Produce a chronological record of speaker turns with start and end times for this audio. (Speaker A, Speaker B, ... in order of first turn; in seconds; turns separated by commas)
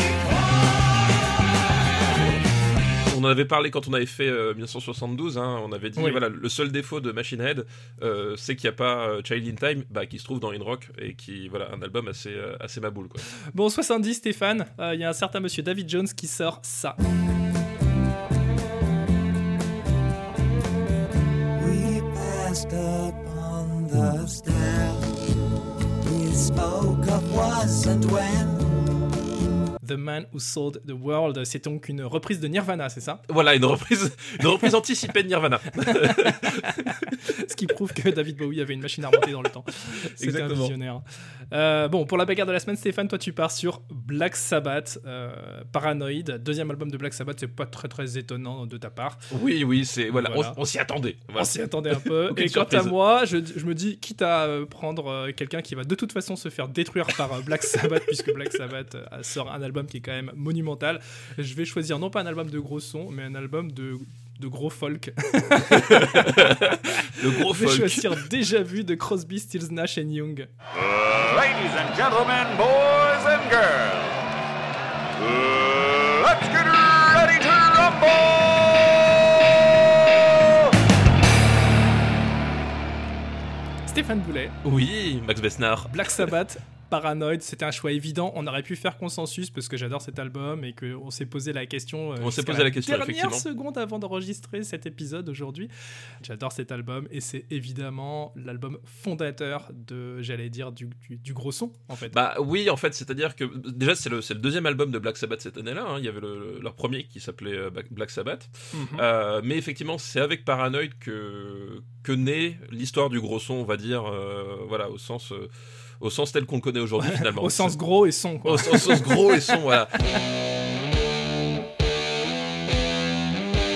Speaker A: 3.1-13.2, Speaker B: 13.5-17.0, Speaker C: 21.5-25.1, Speaker C: 26.0-29.1, Speaker B: 29.8-33.2, Speaker A: 33.3-37.1, Speaker B: 35.9-49.2, Speaker A: 40.2-40.7, Speaker A: 49.3-52.9, Speaker B: 50.1-50.6, Speaker B: 51.4-70.5, Speaker A: 65.7-68.2, Speaker D: 71.3-73.9, Speaker D: 76.0-78.2, Speaker B: 83.9-84.6, Speaker A: 84.6-86.3, Speaker B: 85.9-95.7, Speaker A: 92.2-93.4, Speaker B: 96.2-102.2, Speaker A: 102.1-117.8, Speaker B: 108.7-109.0, Speaker B: 117.0-119.6, Speaker A: 118.4-119.9